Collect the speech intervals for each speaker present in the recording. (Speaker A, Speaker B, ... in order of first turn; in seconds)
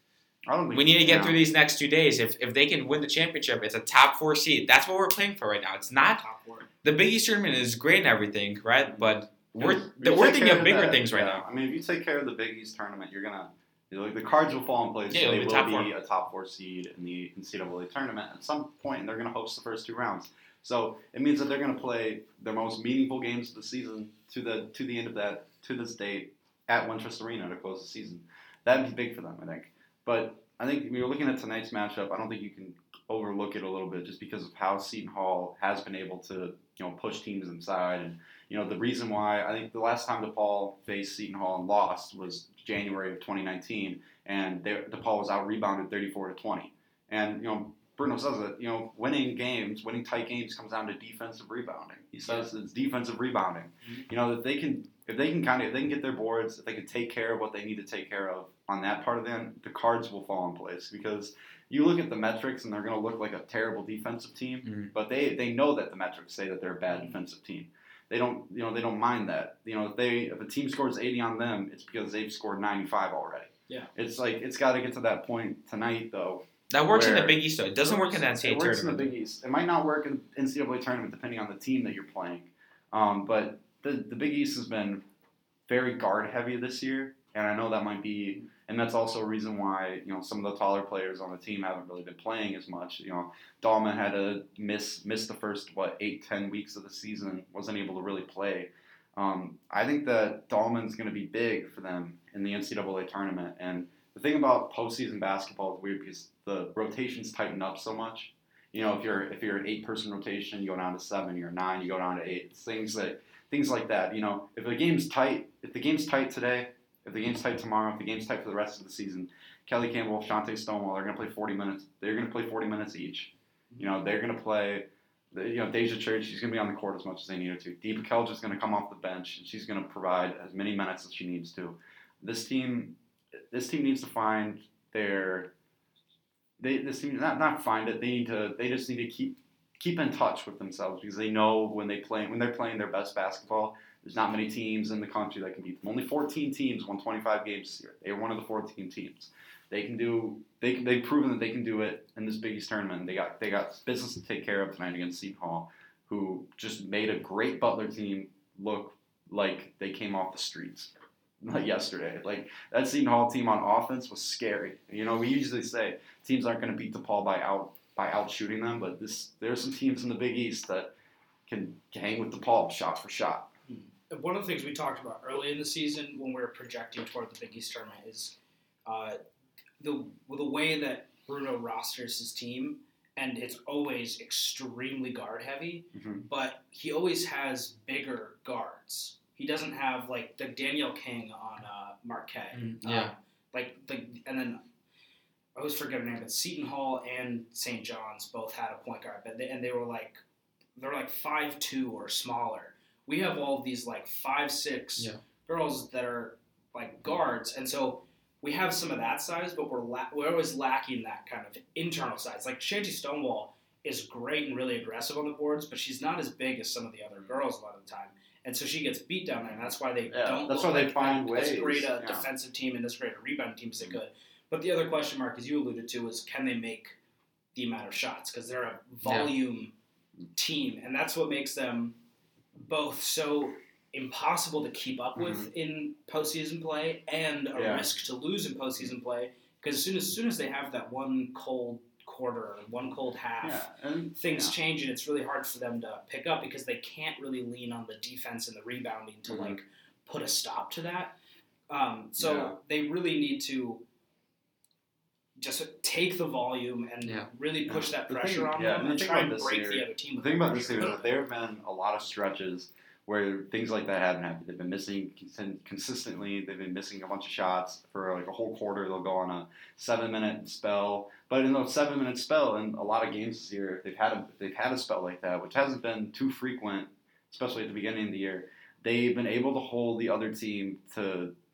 Speaker A: 0.5-1.4, 8.9-85.0, 85.7-133.0, 133.5-135.5, 136.6-170.9, 171.5-173.5, 185.9-186.3, 220.1-222.3, 235.2-235.5, 237.6-237.9, 243.4-244.6, 249.3-249.6, 252.2-252.6, 257.7-281.3
Speaker B: 0.7-6.2, 6.8-11.4, 15.1-15.9, 64.7-64.9, 76.7-79.1, 192.5-193.1, 229.0-229.3
Speaker C: 6.2-6.7, 173.7-178.3, 178.9-179.2, 179.8-194.6, 195.6-200.2, 200.8-227.0, 227.6-229.7, 230.3-231.9, 232.6-251.2, 251.7-253.8, 255.4-261.1